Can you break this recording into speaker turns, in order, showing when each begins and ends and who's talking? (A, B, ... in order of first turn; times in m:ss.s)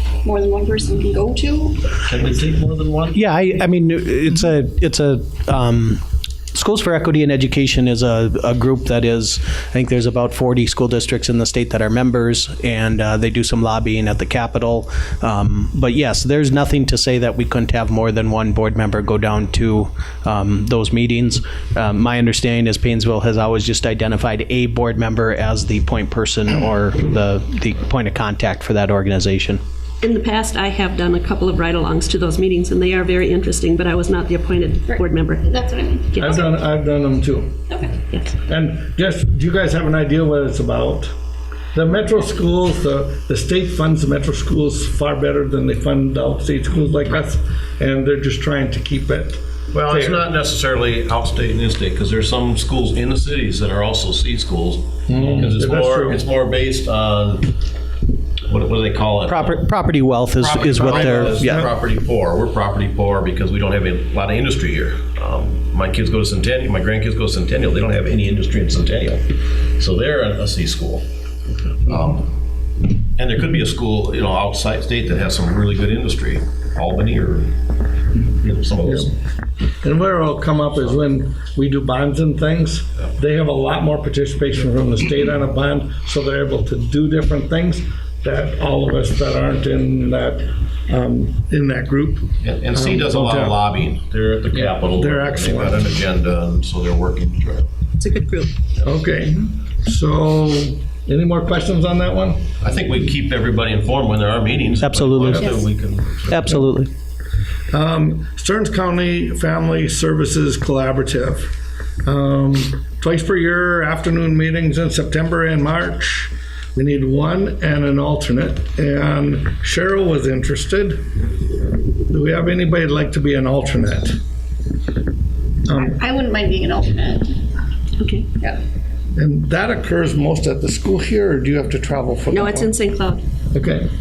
0:00.2-0:01.9 A
0:02.0-0:03.2 B
0:03.1-0:06.0 C
0:06.5-0:29.6 C
0:30.0-0:35.5 D
0:34.9-0:36.5 A
0:36.1-0:36.4 D
0:36.2-0:37.6 E
0:38.1-0:38.4 D
0:38.5-0:41.1 E
0:41.7-0:50.2 E
0:49.7-0:57.5 B
0:55.1-0:56.2 E
0:58.5-0:59.6 B
0:59.2-1:01.7 C
1:00.4-1:11.0 B
1:00.8-1:01.5 E
1:11.8-1:12.3 B
1:13.2-1:17.5 B
1:18.2-1:19.1 B
1:18.8-1:19.1 E
1:19.8-1:33.6 E
1:20.8-1:21.0 B
1:32.4-1:37.7 B
1:34.6-1:35.9 E
1:38.0-1:38.5 D
1:38.8-1:42.5 E
1:42.6-1:46.6 B
1:44.8-1:45.6 C
1:46.3-1:46.9 C
1:47.7-2:01.0 E
2:02.1-2:04.2 E
2:05.7-2:06.0 E
2:05.7-2:07.4 A
2:08.0-2:08.3 D
2:09.2-2:12.7 E
2:12.3-2:13.2 D
2:13.5-2:13.9 E